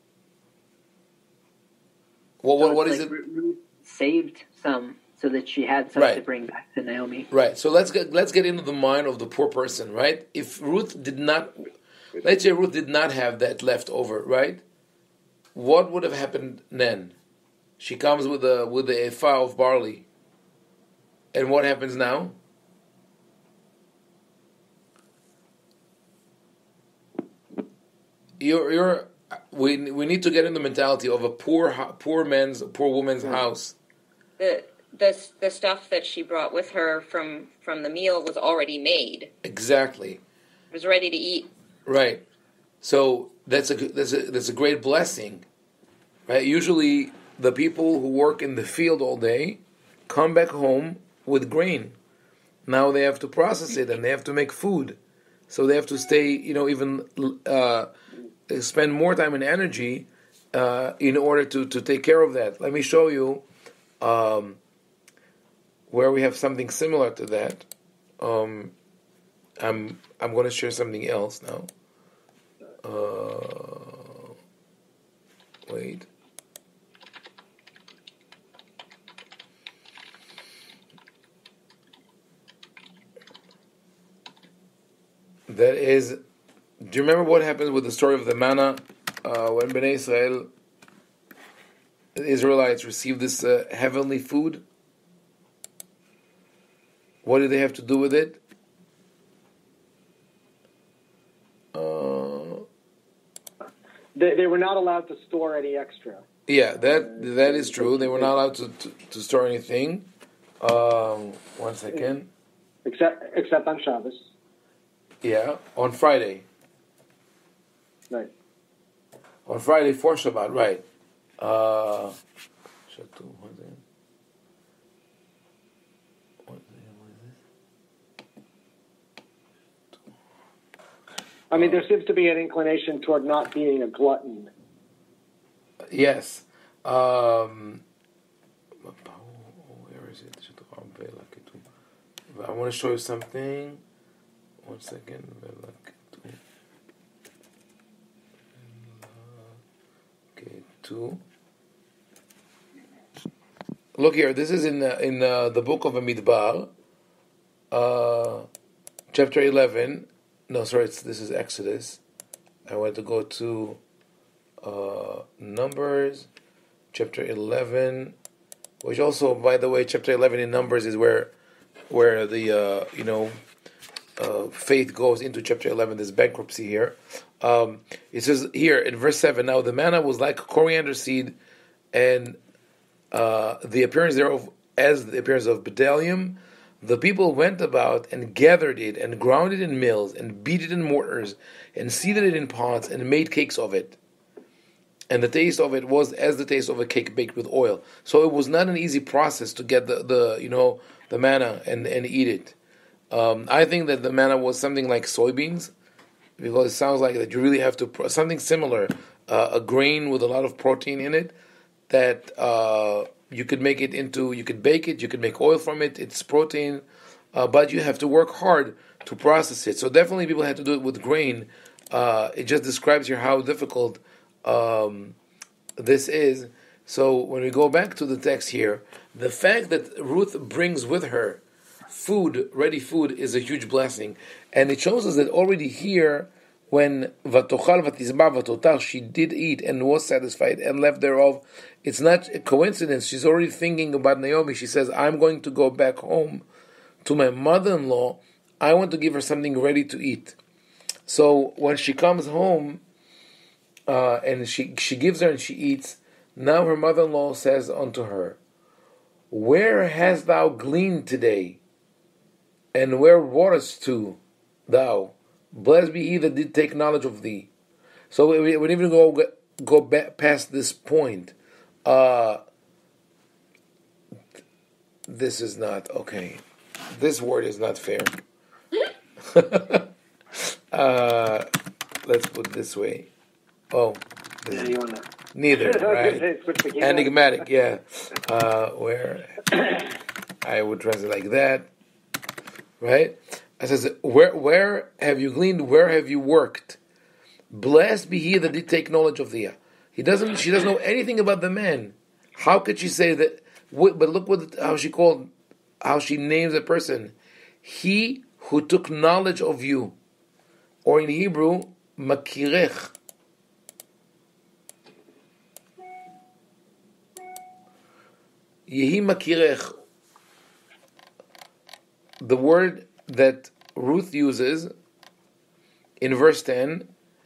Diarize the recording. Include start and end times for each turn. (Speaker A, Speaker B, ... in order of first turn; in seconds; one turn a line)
Speaker A: 2.4-3.1
Speaker B: 2.6-7.3
Speaker A: 5.9-6.2
Speaker A: 7.3-11.5
Speaker A: 12.2-14.6
Speaker A: 15.5-17.1
Speaker A: 17.8-20.1
Speaker A: 21.3-22.4
Speaker A: 28.4-33.7
Speaker C: 34.4-39.3
Speaker A: 39.4-40.2
Speaker C: 40.7-41.5
Speaker A: 41.9-42.2
Speaker A: 42.8-45.5
Speaker A: 46.3-52.0
Speaker A: 52.6-55.0
Speaker A: 55.5-57.9
Speaker A: 58.5-63.4
Speaker A: 64.0-64.6
Speaker A: 65.9-67.7
Speaker A: 68.2-68.7
Speaker A: 69.6-71.7
Speaker A: 72.8-74.2
Speaker A: 75.7-76.1
Speaker A: 85.5-86.2
Speaker A: 86.8-90.5
Speaker A: 92.1-94.6
Speaker A: 97.2-98.4
Speaker A: 101.7-102.7
Speaker D: 104.1-106.2
Speaker A: 106.5-110.1
Speaker D: 107.0-108.3
Speaker A: 110.6-112.3
Speaker D: 112.8-114.2
Speaker A: 115.2-116.5
Speaker A: 119.5-120.8
Speaker A: 121.4-122.1
Speaker A: 122.9-123.8
Speaker A: 126.5-127.4
Speaker D: 131.5-134.5
Speaker A: 131.5-131.8
Speaker A: 135.9-137.8
Speaker A: 138.8-141.6
Speaker A: 142.3-143.8
Speaker A: 144.6-146.4
Speaker A: 148.7-149.5
Speaker A: 150.3-151.2
Speaker A: 154.0-156.7
Speaker A: 157.7-158.5
Speaker A: 159.1-162.0
Speaker A: 162.7-163.8
Speaker A: 164.6-166.3
Speaker A: 166.9-168.2
Speaker A: 168.8-171.3
Speaker A: 171.9-173.3
Speaker A: 174.2-181.3
Speaker A: 181.9-182.4
Speaker A: 183.1-194.0
Speaker A: 195.1-202.5
Speaker A: 203.1-205.7
Speaker A: 206.4-211.3
Speaker A: 211.9-225.2
Speaker A: 225.8-246.4
Speaker A: 247.0-250.4
Speaker A: 251.1-252.8
Speaker A: 253.9-258.4
Speaker A: 259.3-261.6
Speaker A: 262.7-267.5
Speaker A: 268.1-271.3
Speaker A: 271.8-272.4
Speaker A: 275.1-276.4
Speaker A: 276.9-278.1
Speaker A: 279.2-279.9
Speaker A: 280.4-281.5
Speaker A: 282.0-283.1
Speaker A: 283.7-284.7
Speaker D: 284.5-285.1
Speaker A: 285.3-286.3
Speaker D: 285.6-287.1
Speaker A: 286.8-289.7
Speaker A: 290.4-291.7
Speaker A: 292.8-296.8
Speaker A: 297.5-305.3
Speaker A: 305.8-309.9
Speaker A: 310.8-312.9
Speaker A: 318.7-319.7
Speaker A: 322.2-324.7
Speaker A: 326.0-326.9